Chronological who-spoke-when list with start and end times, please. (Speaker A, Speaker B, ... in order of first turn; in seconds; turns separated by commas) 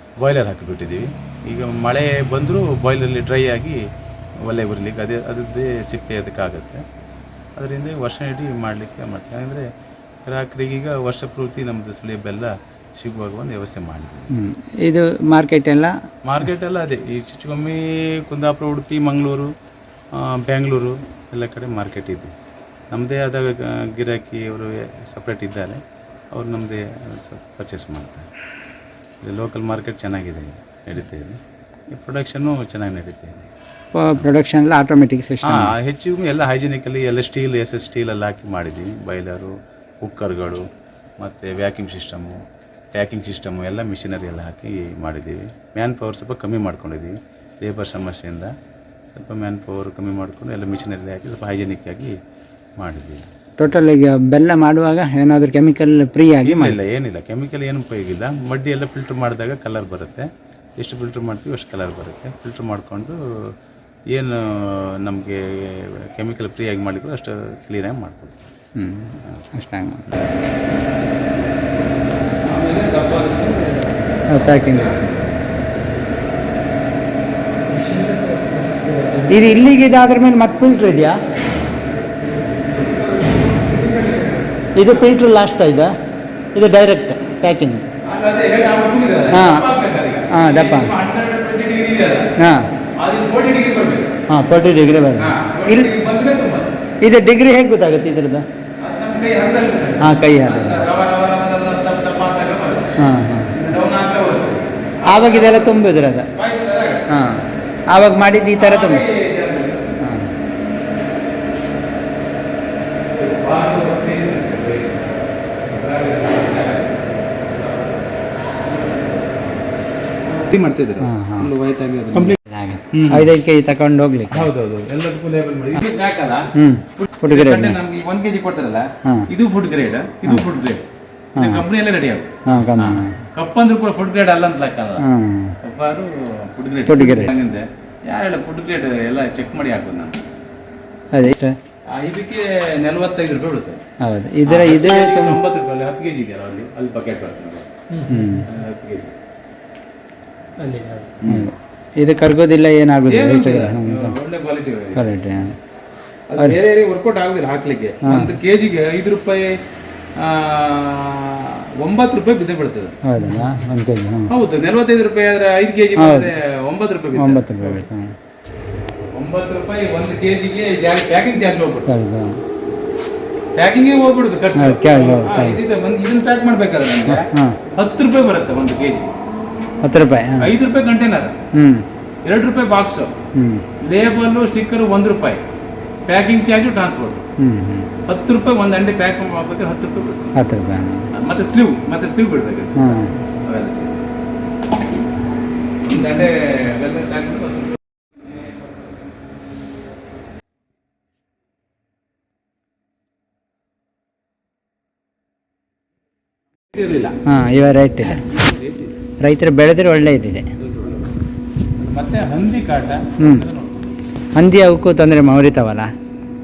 Speaker A: 0.2-3.8, Speaker A: 4.4-6.8, Speaker A: 7.5-9.7, Speaker A: 10.2-14.3, Speaker B: 14.3-15.9, Speaker A: 16.2-19.5, Speaker A: 20.1-22.3, Speaker A: 22.9-25.8, Speaker A: 26.3-28.3, Speaker A: 29.2-31.4, Speaker A: 31.9-33.5, Speaker B: 33.9-35.7, Speaker A: 35.4-40.6, Speaker A: 41.2-42.4, Speaker A: 42.9-48.5, Speaker A: 49.1-52.1, Speaker A: 52.8-53.3, Speaker B: 53.6-56.8, Speaker A: 56.4-63.2, Speaker A: 64.1-68.4, Speaker B: 68.8-70.0, Speaker A: 70.0-70.3, Speaker A: 72.4-75.3, Speaker B: 74.3-75.0, Speaker A: 77.6-79.6, Speaker B: 79.3-81.2, Speaker A: 82.7-85.1, Speaker B: 84.8-85.9, Speaker B: 86.5-87.8, Speaker A: 88.0-92.3, Speaker B: 89.3-89.7, Speaker B: 90.3-90.9, Speaker B: 92.4-92.7, Speaker A: 93.0-94.1, Speaker B: 94.3-95.9, Speaker A: 95.2-96.7, Speaker B: 97.0-98.5, Speaker A: 98.8-103.0, Speaker B: 100.0-100.8, Speaker B: 103.0-103.6, Speaker A: 103.5-107.1, Speaker B: 105.0-106.3, Speaker B: 107.1-109.0, Speaker A: 108.5-109.8, Speaker B: 110.0-110.3, Speaker A: 113.1-118.0, Speaker A: 118.5-119.4, Speaker A: 120.3-122.4, Speaker B: 121.0-121.5, Speaker B: 122.1-124.5, Speaker A: 122.9-123.3, Speaker A: 124.3-130.8, Speaker B: 126.5-127.8, Speaker B: 129.0-129.3, Speaker B: 131.3-131.7, Speaker A: 131.3-135.0, Speaker B: 132.4-133.2, Speaker B: 135.0-135.6, Speaker A: 135.6-140.2, Speaker B: 136.9-137.3, Speaker B: 141.1-141.5, Speaker A: 141.9-143.8, Speaker B: 144.0-145.4, Speaker A: 144.4-149.2, Speaker B: 148.1-148.5, Speaker A: 150.6-151.5, Speaker B: 151.2-154.2, Speaker A: 153.1-155.1, Speaker B: 154.9-155.5, Speaker A: 156.3-159.6, Speaker B: 158.0-158.3, Speaker A: 160.2-162.9, Speaker B: 163.1-164.3, Speaker A: 164.3-167.8, Speaker B: 166.0-166.3, Speaker B: 167.2-168.1, Speaker A: 169.1-171.9, Speaker B: 171.9-172.3, Speaker A: 173.5-179.1, Speaker B: 174.6-175.6, Speaker B: 177.1-177.6, Speaker B: 179.8-180.5, Speaker A: 180.4-181.3, Speaker B: 181.5-181.8, Speaker A: 182.2-183.1, Speaker B: 183.3-183.7, Speaker A: 183.8-185.4, Speaker A: 186.1-187.2, Speaker B: 187.4-187.9, Speaker A: 188.1-190.3, Speaker B: 190.4-191.1, Speaker A: 191.1-194.0, Speaker B: 192.8-193.1, Speaker A: 195.8-198.3, Speaker A: 206.7-207.2, Speaker B: 207.3-208.2, Speaker A: 208.0-208.9, Speaker B: 209.2-210.4, Speaker A: 210.6-211.0, Speaker A: 211.8-213.8, Speaker B: 213.2-213.5, Speaker B: 214.3-215.9